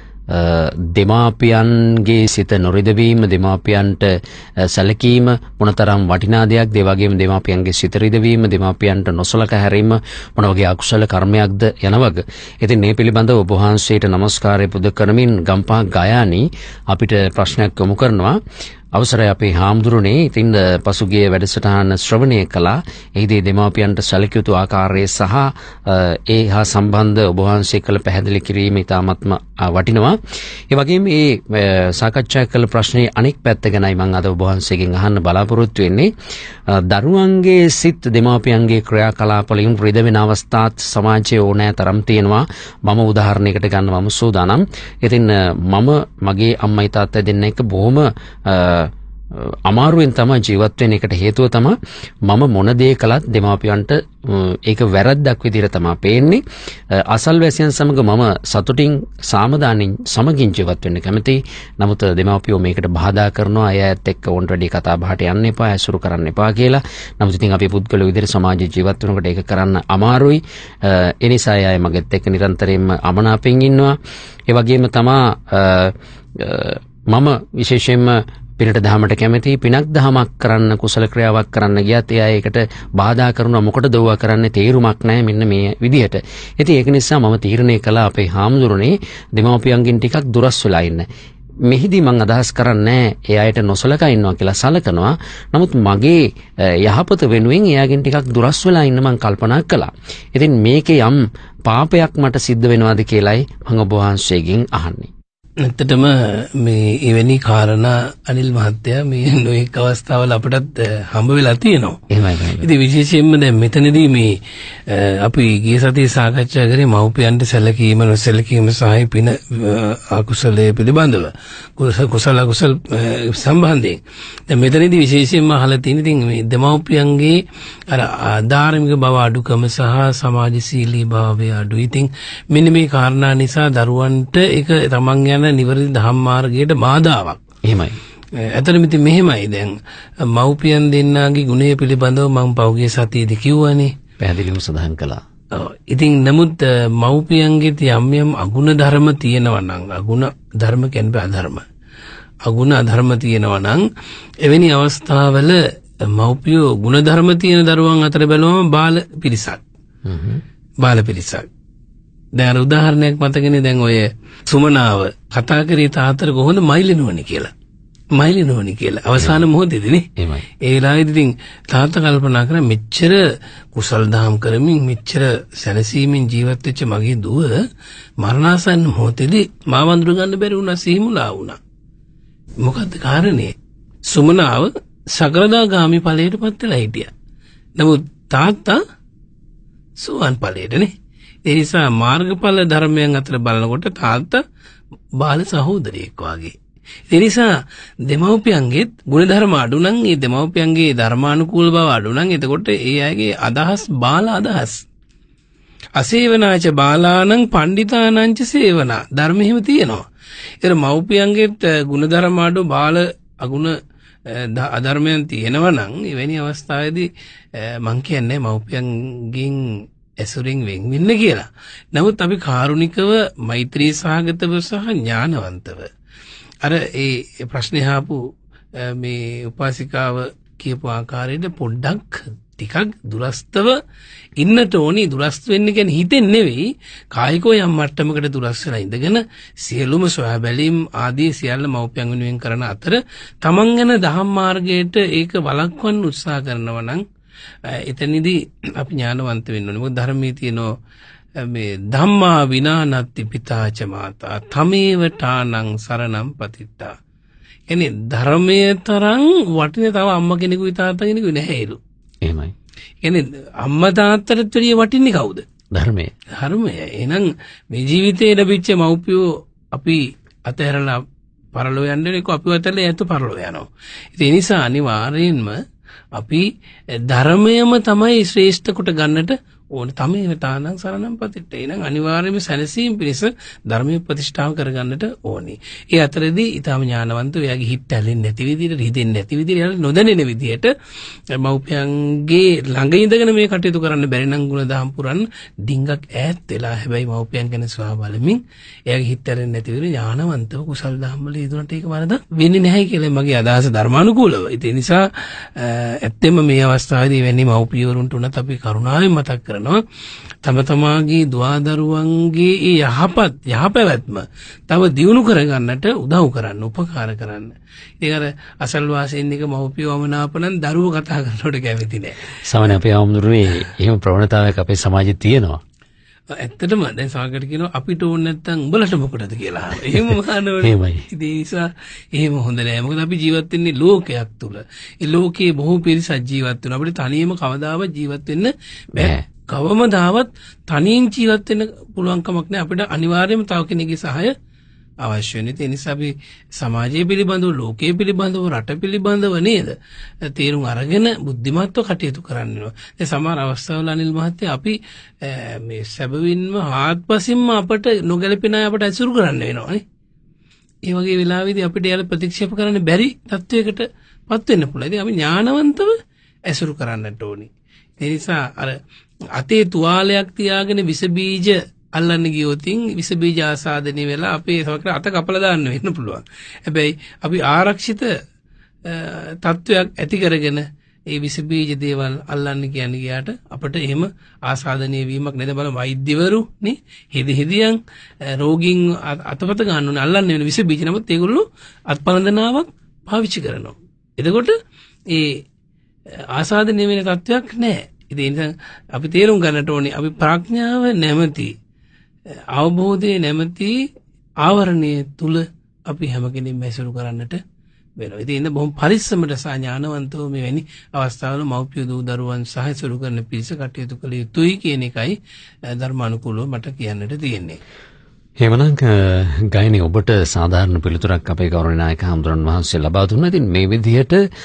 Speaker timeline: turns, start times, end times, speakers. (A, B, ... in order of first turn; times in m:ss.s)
0:00.3-0:04.1 A
0:04.7-0:18.4 A
0:19.0-0:30.2 A
0:30.7-0:36.1 A
0:36.9-0:51.8 A
0:52.3-0:56.4 A
0:57.1-1:13.9 A
1:14.5-1:31.0 A
1:31.7-1:36.2 A
1:36.8-1:45.1 A
1:45.6-1:52.0 B
1:52.1-1:52.7 A
1:52.6-1:54.3 B
1:54.9-2:17.4 B
2:17.6-2:18.0 A
2:18.4-2:23.9 B
2:24.2-2:25.2 A
2:25.5-2:31.6 B
2:32.4-2:33.8 B
2:34.4-2:39.6 B
2:40.0-2:40.4 A
2:40.8-2:41.5 B
2:42.4-2:47.5 B
2:48.1-2:50.1 B
2:50.2-2:50.5 A
2:50.6-2:57.6 B
2:58.2-3:01.6 B
3:02.6-3:03.5 B
3:04.1-3:07.1 B
3:07.8-3:08.8 B
3:10.0-3:10.9 B
3:11.4-3:14.4 B
3:15.2-3:16.6 B
3:17.1-3:17.5 B
3:18.0-3:24.8 B
3:26.0-3:30.0 B
3:30.6-3:33.7 B
3:34.2-3:45.9 B
3:46.6-3:48.2 B
3:48.7-3:53.8 B
3:54.4-4:07.0 B
4:07.6-4:10.7 B
4:11.4-4:16.9 B
4:17.7-4:21.8 B
4:22.2-4:22.5 A
4:23.0-4:25.4 B
4:25.7-4:26.1 A
4:26.4-4:35.6 B
4:36.1-4:50.7 B
4:51.3-5:09.8 B
5:10.4-5:22.2 B
5:22.4-5:25.6 A
5:26.4-5:44.3 B
5:30.6-5:31.0 A
5:39.0-5:39.2 A
5:45.0-5:59.8 B
6:00.9-6:06.0 B
6:06.5-6:08.8 B
6:09.4-6:18.1 B
6:18.8-6:34.6 B
6:35.1-6:35.4 B
6:36.3-6:41.5 B
6:42.5-6:43.7 B
6:44.4-6:47.4 B
6:48.0-6:55.2 B
6:55.7-6:57.6 B
6:58.4-7:04.2 A